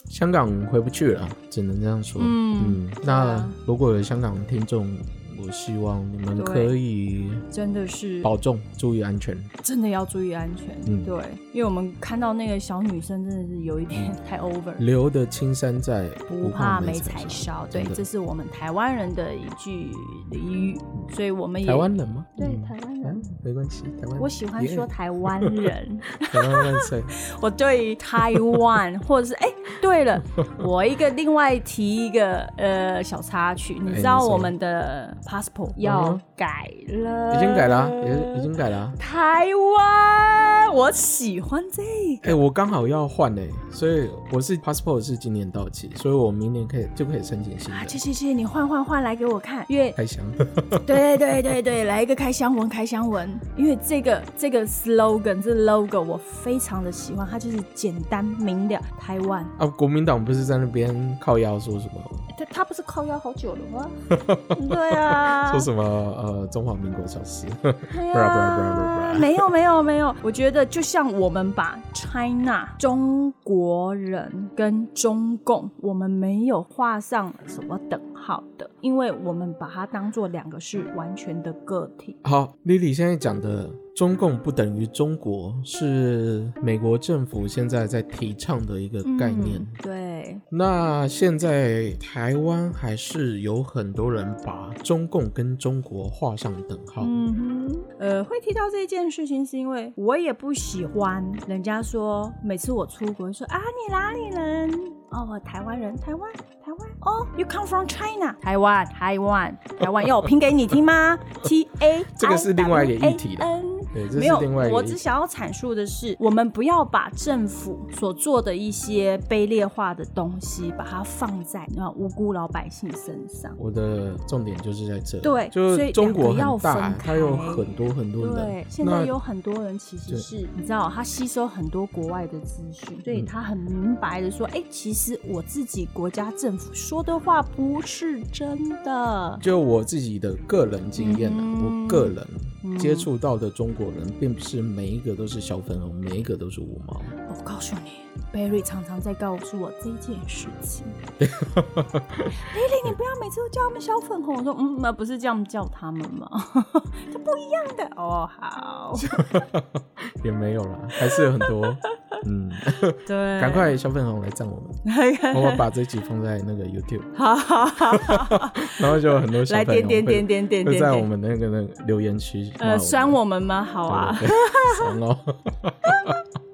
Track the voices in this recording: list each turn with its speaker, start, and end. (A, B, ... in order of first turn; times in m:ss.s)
0:00.1-0:07.4 A
0:02.2-0:03.6 B
0:06.4-0:06.7 B
0:07.5-0:08.3 B
0:08.2-0:09.5 A
0:09.6-0:14.8 B
0:10.8-0:11.1 A
0:14.8-0:18.0 A
0:16.3-0:23.3 B
0:21.6-0:27.1 A
0:24.2-0:42.4 B
0:28.2-0:28.6 A
0:33.9-0:34.5 A
0:35.8-0:36.2 A
0:37.3-0:39.0 A
0:42.2-0:48.0 A
0:47.7-0:50.0 B
0:50.0-0:50.9 A
0:50.7-0:59.5 B
0:59.6-1:02.3 A
1:02.3-1:03.9 B
1:04.1-1:09.5 A
1:04.5-1:05.7 B
1:07.9-1:22.2 B
1:22.2-1:29.7 A
1:29.0-1:30.4 B
1:30.5-1:37.2 A
1:37.0-2:03.6 B
1:52.2-1:55.0 A
2:03.6-2:09.1 A
2:05.2-2:19.4 B
2:19.4-2:27.1 A
2:21.0-2:23.1 B
2:27.2-2:31.0 B
2:31.2-2:32.9 A
2:32.3-2:39.4 B
2:39.0-2:44.8 A
2:41.0-2:42.2 B
2:43.0-2:43.7 B
2:44.8-2:45.6 B
2:45.3-2:47.1 A
2:47.1-2:51.1 B
2:47.9-2:53.2 A
2:52.6-2:54.9 B
2:53.9-2:56.2 A
2:55.8-2:56.2 B